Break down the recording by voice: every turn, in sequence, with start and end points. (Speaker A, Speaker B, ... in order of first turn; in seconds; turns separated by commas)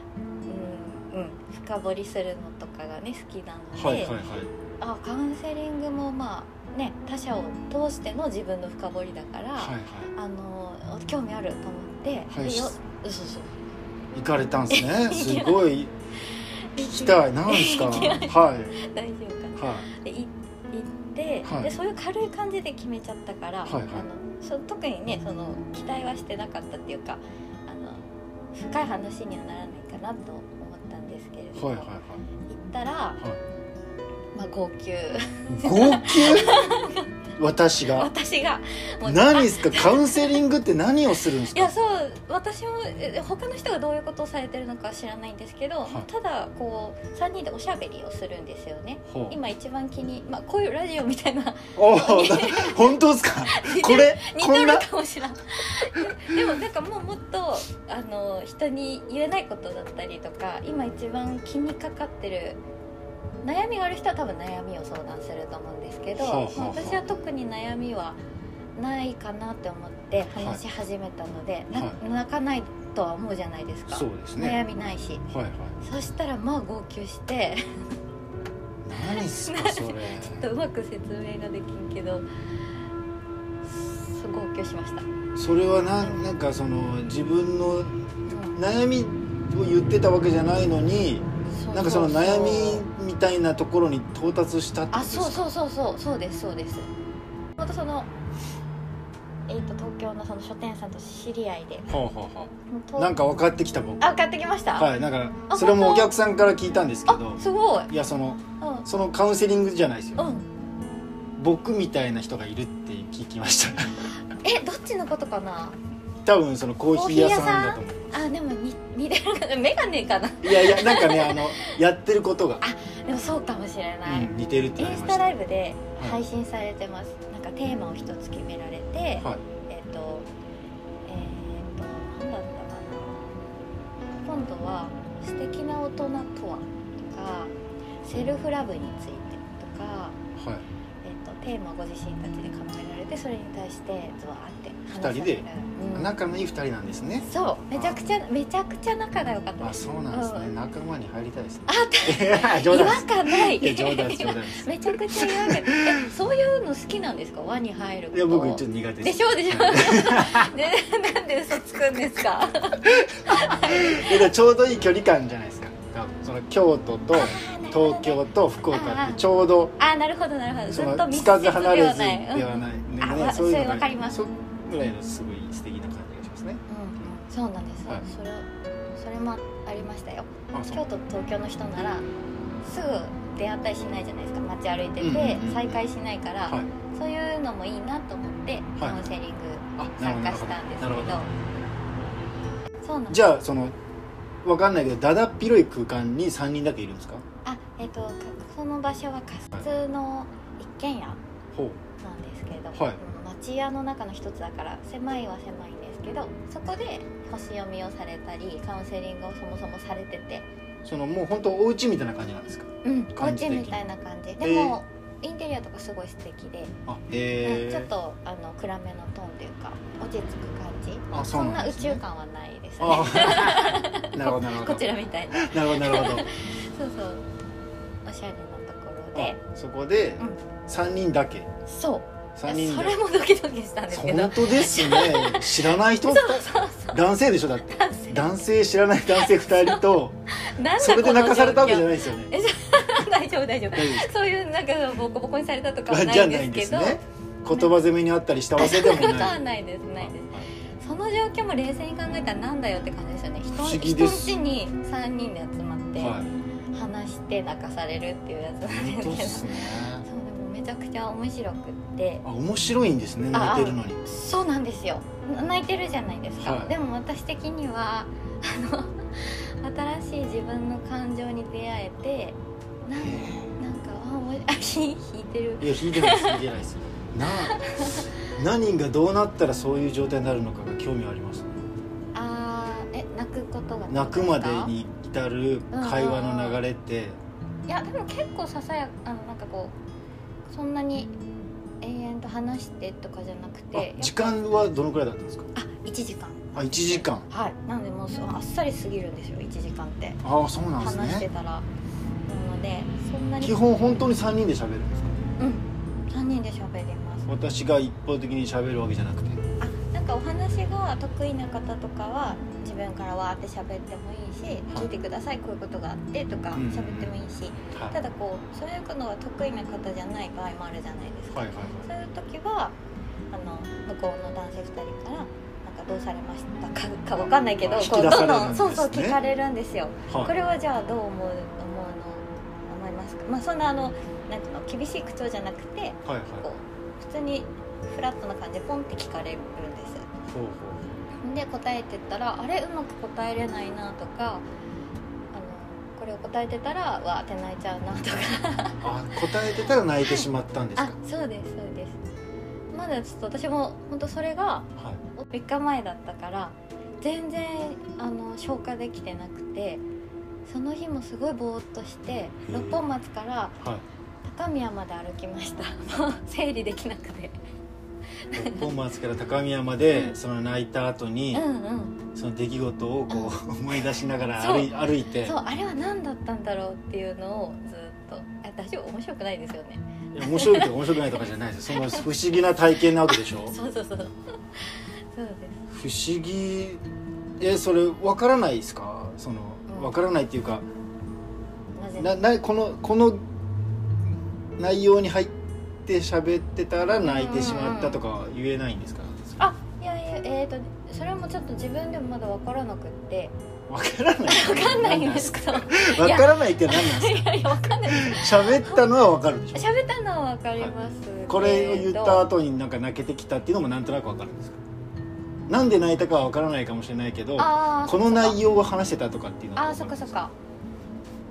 Speaker A: 0.5-4.2, Speaker B: 3.8-4.5, Speaker A: 4.8-13.5, Speaker B: 9.6-10.1, Speaker B: 12.3-12.7, Speaker B: 14.1-15.9, Speaker A: 14.7-15.7, Speaker A: 16.7-31.9, Speaker B: 16.8-18.7, Speaker B: 19.6-19.9, Speaker B: 21.4-21.7, Speaker B: 23.6-24.1, Speaker B: 31.5-32.2, Speaker A: 32.5-33.2, Speaker A: 34.3-37.1, Speaker B: 35.5-36.7, Speaker B: 37.4-38.1, Speaker A: 37.9-40.4, Speaker B: 39.0-41.7, Speaker A: 41.4-62.6, Speaker B: 49.1-49.4, Speaker B: 51.8-54.9, Speaker A: 63.4-68.2, Speaker B: 66.2-67.0, Speaker A: 68.8-75.2, Speaker B: 70.3-70.6, Speaker B: 71.7-72.0, Speaker B: 73.9-74.6, Speaker B: 75.3-75.7, Speaker A: 75.8-77.8, Speaker B: 78.8-80.5, Speaker A: 79.0-82.2, Speaker A: 83.6-85.0, Speaker B: 85.3-95.5, Speaker A: 88.3-88.6, Speaker A: 91.5-92.8, Speaker A: 94.9-96.9, Speaker A: 97.6-98.1, Speaker A: 99.5-102.0, Speaker B: 101.9-104.0, Speaker A: 102.7-103.1, Speaker A: 104.0-104.9, Speaker B: 104.7-110.3, Speaker A: 105.5-106.1, Speaker A: 107.1-107.9, Speaker A: 108.6-108.9, Speaker A: 110.2-110.5, Speaker B: 111.4-114.1, Speaker A: 114.3-115.8, Speaker B: 116.2-118.2, Speaker A: 116.9-121.8, Speaker B: 120.4-122.6, Speaker A: 122.6-130.3, Speaker B: 124.0-125.4, Speaker B: 126.0-126.2, Speaker A: 131.1-133.4, Speaker A: 134.2-140.2, Speaker B: 140.4-140.6, Speaker A: 141.0-146.1, Speaker B: 144.9-148.0, Speaker A: 147.2-150.5, Speaker B: 149.6-156.1, Speaker A: 151.7-164.3, Speaker B: 158.1-160.5, Speaker B: 162.8-169.7, Speaker A: 167.1-169.2, Speaker A: 169.8-174.2, Speaker B: 170.7-176.6, Speaker A: 176.7-182.1, Speaker B: 180.5-180.8, Speaker A: 182.6-191.3, Speaker B: 185.0-185.8, Speaker B: 188.8-189.1, Speaker B: 189.8-191.3, Speaker A: 192.8-193.2, Speaker B: 193.1-193.8, Speaker B: 194.4-197.2, Speaker A: 197.4-201.2, Speaker B: 201.5-201.8, Speaker A: 202.0-210.5, Speaker B: 202.7-203.0, Speaker B: 210.8-213.8, Speaker A: 212.8-216.7, Speaker B: 214.4-214.8, Speaker B: 216.9-217.9, Speaker A: 217.4-227.2, Speaker B: 221.1-222.0, Speaker B: 222.8-226.3, Speaker A: 228.0-229.4, Speaker B: 229.1-231.5, Speaker A: 231.7-237.0, Speaker B: 232.3-233.0, Speaker B: 233.9-240.2, Speaker A: 237.7-238.3, Speaker A: 239.1-247.7, Speaker B: 240.8-242.3, Speaker B: 243.7-244.1, Speaker B: 245.9-249.4, Speaker A: 248.6-256.2, Speaker B: 250.0-250.5, Speaker B: 253.5-254.4, Speaker B: 256.0-256.3, Speaker A: 256.7-262.2, Speaker B: 258.6-260.1, Speaker B: 262.2-264.0, Speaker A: 263.3-276.4, Speaker B: 266.4-266.7, Speaker B: 273.0-273.5, Speaker B: 275.6-281.5, Speaker A: 277.4-278.1, Speaker A: 282.1-284.7, Speaker B: 283.9-287.2, Speaker A: 285.7-286.6, Speaker A: 287.7-289.8, Speaker A: 290.5-291.1, Speaker A: 291.8-294.4, Speaker B: 293.7-295.5, Speaker A: 295.5-300.2, Speaker B: 296.5-297.2, Speaker B: 300.2-301.3, Speaker A: 300.8-301.7, Speaker A: 302.2-304.0, Speaker B: 303.4-305.2, Speaker A: 305.4-307.3, Speaker B: 307.3-309.4, Speaker A: 309.6-322.7, Speaker B: 316.5-317.1, Speaker B: 317.7-318.0, Speaker B: 321.3-321.9, Speaker A: 323.3-340.1, Speaker B: 327.6-329.2, Speaker B: 336.1-336.5, Speaker B: 340.3-341.0, Speaker A: 341.2-344.4, Speaker A: 345.3-348.9, Speaker B: 348.8-350.9, Speaker A: 350.0-352.0, Speaker A: 352.7-359.8, Speaker A: 360.4-363.6, Speaker B: 362.5-362.8, Speaker A: 364.2-367.4, Speaker A: 368.3-368.7, Speaker B: 368.3-371.4, Speaker A: 369.9-370.1, Speaker A: 371.3-372.0, Speaker B: 372.1-375.3, Speaker A: 373.1-373.4, Speaker A: 374.4-382.1, Speaker B: 380.1-383.5, Speaker A: 383.0-385.6, Speaker B: 385.7-386.8, Speaker B: 387.4-390.6, Speaker A: 389.7-390.0, Speaker A: 391.8-392.2, Speaker B: 392.0-393.2, Speaker B: 394.6-395.3, Speaker B: 395.9-399.2, Speaker A: 396.9-398.0, Speaker A: 399.4-403.3, Speaker B: 403.7-409.7, Speaker A: 404.3-408.8, Speaker A: 409.5-412.3, Speaker B: 411.3-414.6, Speaker B: 415.5-420.2, Speaker A: 417.4-418.4, Speaker A: 419.6-420.3